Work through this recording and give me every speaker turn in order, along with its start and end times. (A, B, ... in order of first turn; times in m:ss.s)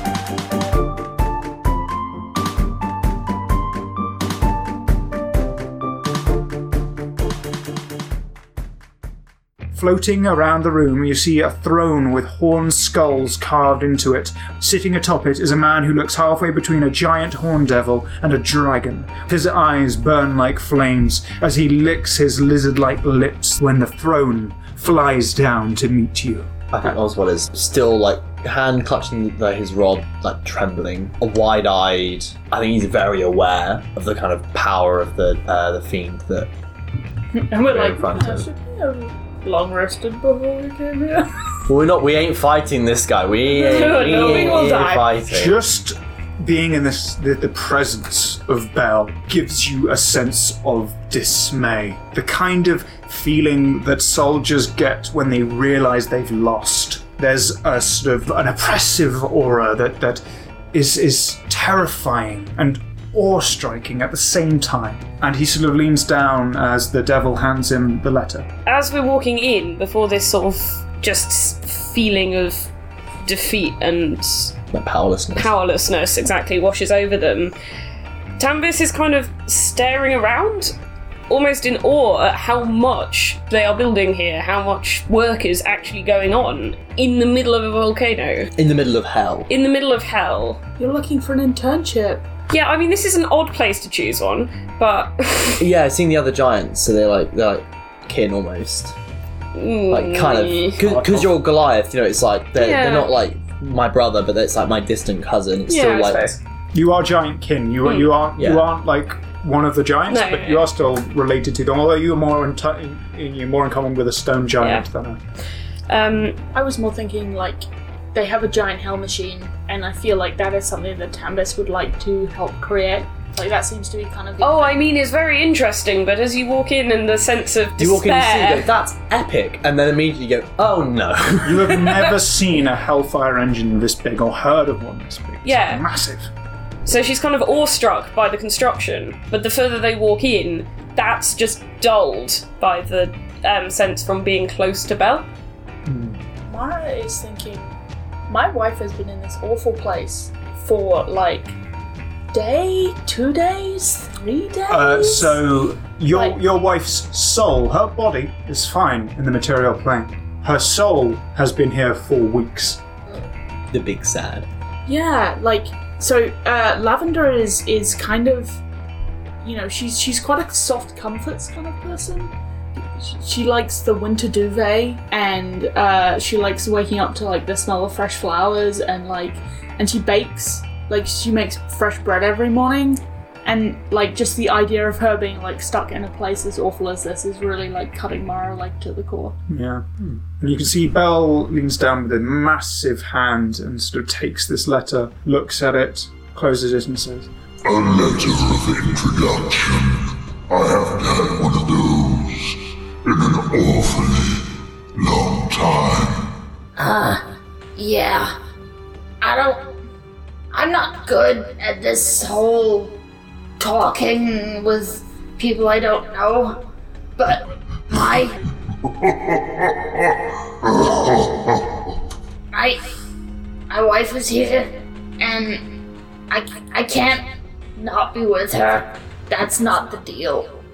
0:09.7-0:26.9 A
0:26.7-0:36.5 B
0:37.3-0:41.3 C
0:37.6-0:38.5 B
0:41.7-0:45.6 B
0:43.4-0:45.1 C
0:43.5-0:44.9 D
0:45.3-1:00.2 A
1:00.7-1:08.5 A
1:08.6-1:12.7 D
1:13.2-1:14.6 D
1:14.7-1:15.5 B
1:15.4-1:17.5 D
1:18.4-1:20.7 D
1:21.3-1:28.5 D
1:28.6-1:29.5 B
1:29.5-1:30.6 D
1:30.8-1:32.2 C
1:32.5-1:35.6 D
1:35.6-1:38.9 B
1:39.5-1:40.8 D
1:39.9-1:46.2 B
1:40.8-1:41.3 A
1:42.6-1:43.1 D
1:45.7-1:46.4 D
1:46.7-1:55.2 A
1:48.4-1:48.7 B
1:50.1-1:50.6 D
1:55.9-1:56.4 D
1:56.5-2:04.9 C
2:04.4-2:08.7 D
2:07.8-2:11.9 B
2:11.4-2:16.3 A
2:15.4-2:15.8 D
2:16.8-2:25.3 D
2:25.8-2:26.2 A
2:26.5-2:27.7 C
2:28.3-2:31.5 C
2:32.3-2:35.4 C
2:34.7-2:42.8 A
2:36.1-2:36.4 C
2:43.7-2:44.5 B
2:44.8-2:48.6 C
2:49.4-3:09.4 C
3:09.5-3:17.3 A
3:17.6-3:26.3 E
3:26.8-3:27.2 F
3:27.8-3:28.4 F
3:29.2-3:29.7 F
3:30.5-3:32.9 F
3:33.6-3:38.4 F
3:38.8-3:42.0 E
3:42.5-3:42.8 F
3:43.7-3:45.6 F
3:46.3-3:50.6 F